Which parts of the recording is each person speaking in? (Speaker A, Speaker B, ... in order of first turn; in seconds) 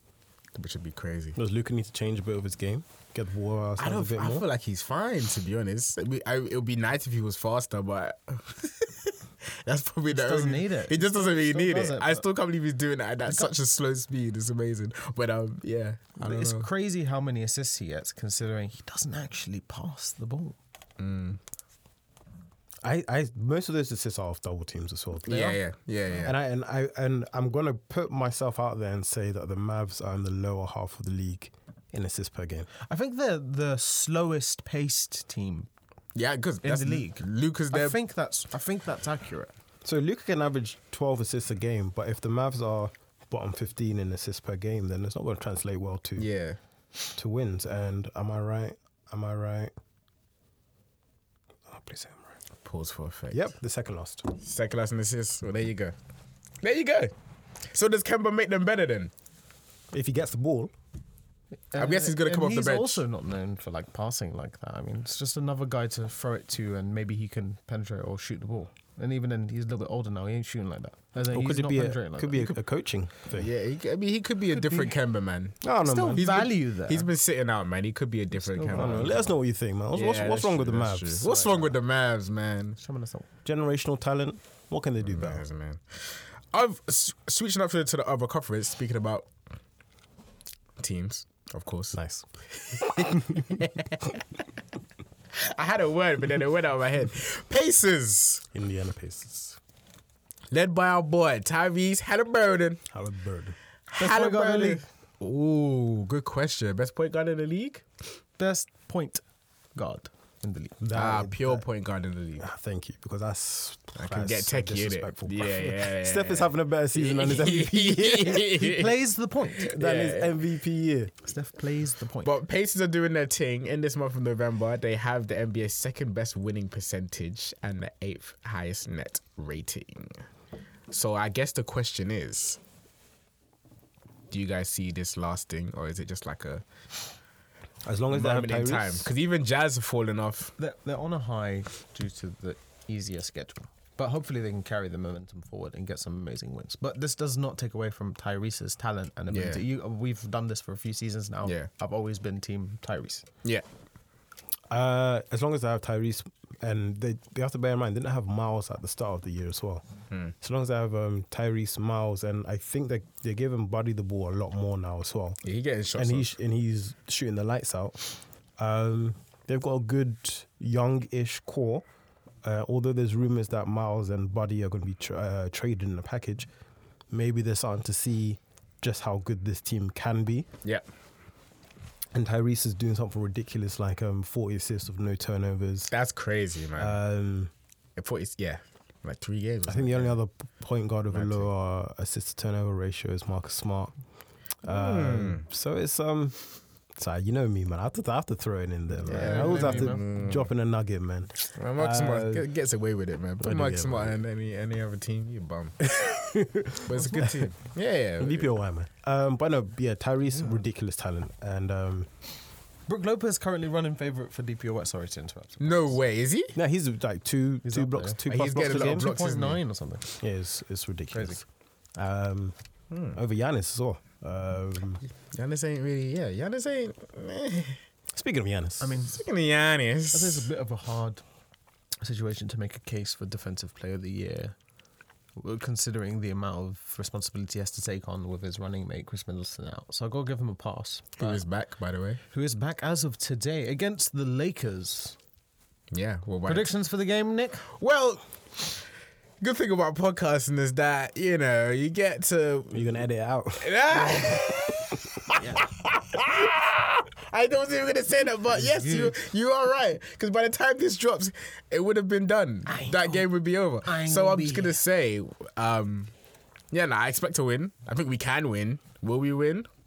Speaker A: 0.6-1.4, 3.8-16.7, 21.0-21.4, 25.2-26.4, 36.1-38.0, 46.2-46.6, 52.6-53.5, 54.3-55.9, 56.6-57.1, 57.6-59.1, 61.8-63.0, 73.3-75.6, 76.1-79.3, 79.9-82.8, 85.1-89.3, 90.8-92.0, 92.7-94.2, 95.3-98.5, 100.5-102.8, 103.9-107.8, 110.9-112.5, 113.9-118.9, 119.6-120.4, 122.2-130.2, 130.9-132.6, 134.3-136.6, 138.1-140.5, 149.3-149.6, 165.4-166.3, 185.9-187.0, 188.0-190.2, 191.1-191.5, 194.7-195.4, 199.0-200.5, 201.5-205.9, 206.8-208.5, 215.6-216.6, 218.3-219.6, 222.9-223.2, 225.3-227.8, 229.1-230.4, 241.2-242.2, 245.9-246.8, 247.6-248.8, 249.4-252.9, 253.6-266.1, 266.7-269.7
Speaker B: 1.4-4.5, 22.8-25.6, 26.2-32.7, 39.8-46.3, 47.1-49.7, 51.7-52.3, 53.3-54.3, 59.9-60.7, 71.3-73.5, 75.6-76.2, 78.8-81.7, 83.4-85.4, 91.9-92.3, 93.0-93.6, 98.5-99.6, 102.9-103.6, 110.8-111.6, 112.4-118.7, 119.6-121.1, 137.8-139.1, 154.7-159.9, 160.4-165.4, 165.9-171.9, 172.4-176.5, 177.1-180.5, 182.1-185.9, 186.8-187.5, 189.7-193.9, 194.6-196.4, 196.9-202.5, 203.4-204.1, 205.8-207.5, 208.2-212.1, 216.6-219.1, 220.2-221.4, 221.9-222.6, 223.1-225.0, 228.1-228.9, 252.7-254.4
Speaker C: 10.1-12.3, 16.2-20.6, 32.9-35.7, 36.6-39.5, 61.7-72.5, 74.5-74.9, 75.8-77.1, 78.4-79.2, 82.8-83.3, 104.0-104.8, 108.4-109.2, 109.8-110.8, 118.4-119.7, 121.2-122.3, 140.6-153.3, 199.1-200.0, 212.9-216.0, 217.6-220.1, 221.1-221.4, 228.8-229.2, 230.1-231.2, 232.0-234.6, 235.4-241.4, 242.3-245.2, 246.4-247.7, 255.3-255.6, 258.6-259.1, 262.7-263.3, 263.8-264.8